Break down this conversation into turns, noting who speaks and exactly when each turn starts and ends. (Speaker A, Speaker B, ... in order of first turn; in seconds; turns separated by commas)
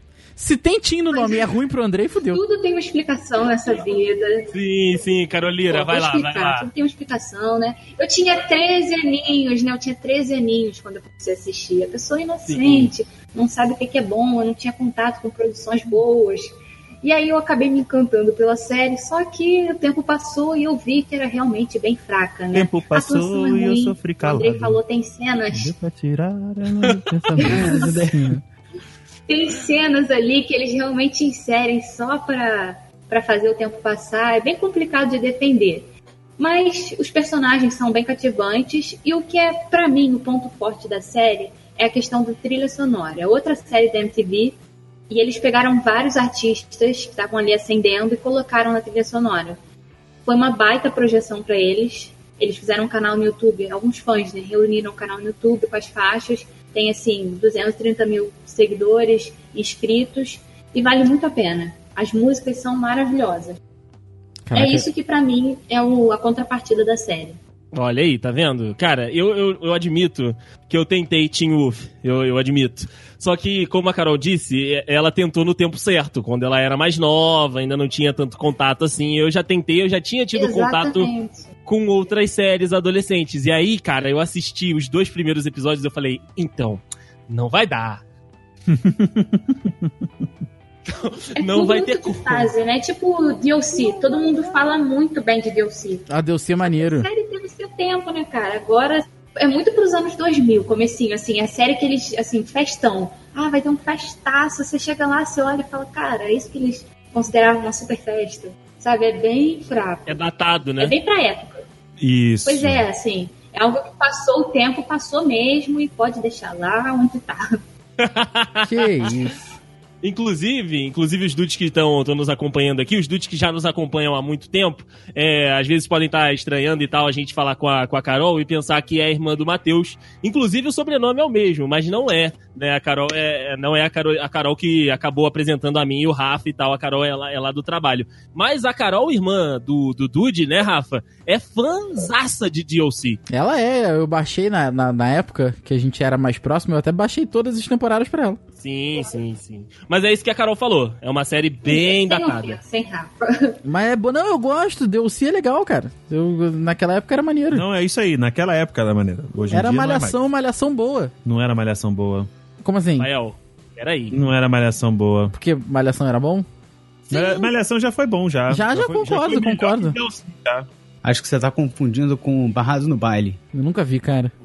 Speaker A: 0.4-2.4, Speaker B: 1.1-1.5, Speaker B: 2.3-4.5, Speaker C: 4.5-6.7, Speaker B: 5.7-25.8, Speaker C: 12.5-12.9, Speaker D: 22.5-24.8, Speaker D: 25.5-27.6, Speaker B: 27.4-28.0, Speaker E: 27.4-28.4, Speaker B: 29.3-44.6, Speaker B: 45.1-49.6, Speaker B: 50.2-63.6, Speaker A: 64.5-64.9, Speaker B: 64.5-67.4, Speaker C: 67.7-81.1, Speaker B: 80.3-81.5, Speaker C: 81.7-88.0, Speaker D: 88.7-89.9, Speaker C: 90.9-92.5, Speaker B: 91.4-96.1, Speaker A: 96.1-97.1, Speaker B: 96.6-110.2, Speaker C: 110.1-111.0, Speaker B: 110.8-111.6, Speaker D: 112.0-112.8, Speaker B: 112.5-117.6, Speaker C: 118.0-119.1, Speaker A: 118.6-119.5, Speaker C: 120.0-143.2, Speaker A: 143.3-148.4, Speaker C: 148.6-152.6, Speaker B: 151.7-153.6, Speaker A: 153.7-157.7, Speaker D: 157.5-160.2, Speaker A: 159.5-161.1, Speaker D: 161.2-162.3, Speaker A: 162.6-163.1, Speaker C: 163.0-164.2, Speaker D: 164.1-165.3, Speaker A: 165.3-166.5, Speaker D: 167.1-170.7, Speaker C: 167.1-167.5, Speaker A: 168.5-170.0, Speaker E: 171.0-173.4, Speaker A: 173.5-174.3